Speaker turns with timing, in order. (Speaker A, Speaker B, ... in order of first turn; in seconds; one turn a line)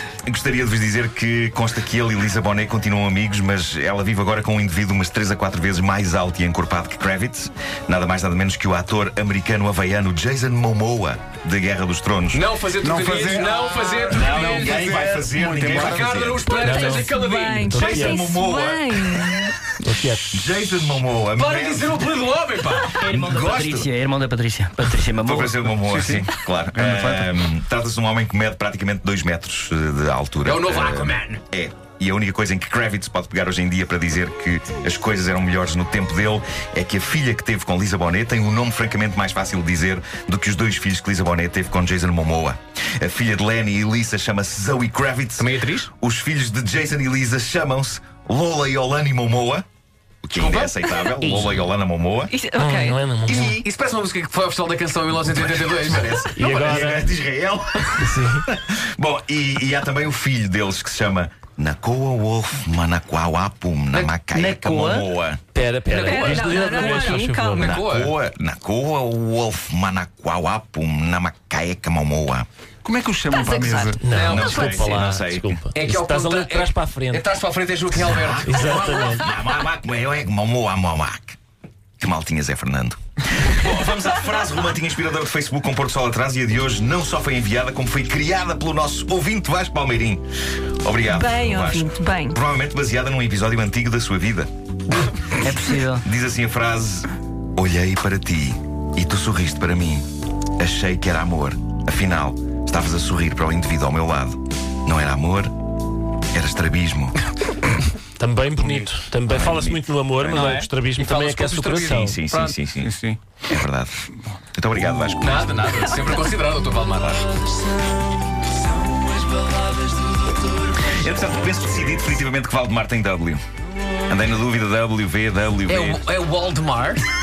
Speaker A: 0.2-12.4
Speaker B: 12.3-17.9
Speaker C: 12.8-16.6
Speaker A: 14.1-16.5
Speaker D: 16.5-19.5
Speaker E: 16.7-17.1
Speaker E: 17.6-18.2
Speaker A: 17.7-19.5
Speaker E: 19.8-20.2
Speaker A: 20.3-23.9
Speaker B: 21.4-23.1
Speaker F: 23.0-25.8
Speaker A: 25.1-49.6
Speaker C: 25.9-27.4
Speaker B: 30.4-31.4
Speaker B: 45.4-45.9
Speaker A: 50.2-52.3
Speaker B: 50.4-50.7
Speaker D: 50.9-51.1
Speaker D: 52.3-53.0
Speaker E: 52.6-53.5
Speaker A: 53.2-53.6
Speaker B: 53.3-56.3
Speaker A: 55.3-65.5
Speaker E: 56.3-57.1
Speaker E: 58.0-58.4
Speaker F: 64.3-65.1
Speaker E: 65.5-67.7
Speaker D: 65.9-67.8
Speaker B: 65.9-68.1
Speaker A: 66.2-66.5
Speaker A: 67.1-72.5
Speaker C: 72.8-74.0
Speaker D: 73.3-74.9
Speaker E: 74.0-77.2
Speaker B: 74.0-75.0
Speaker A: 74.1-75.6
Speaker B: 75.7-79.2
Speaker A: 77.9-81.4
Speaker E: 78.5-79.2
Speaker A: 82.0-90.2
Speaker A: 90.8-100.0
Speaker D: 91.1-92.4
Speaker F: 95.4-96.0
Speaker A: 100.6-105.5
Speaker A: 106.3-107.2
Speaker E: 108.2-112.2
Speaker A: 109.2-110.5
Speaker B: 110.3-113.2
Speaker A: 111.9-112.9
Speaker A: 113.5-115.7
Speaker B: 115.2-121.5
Speaker A: 120.8-123.4
Speaker A: 124.1-126.0
Speaker B: 125.7-127.0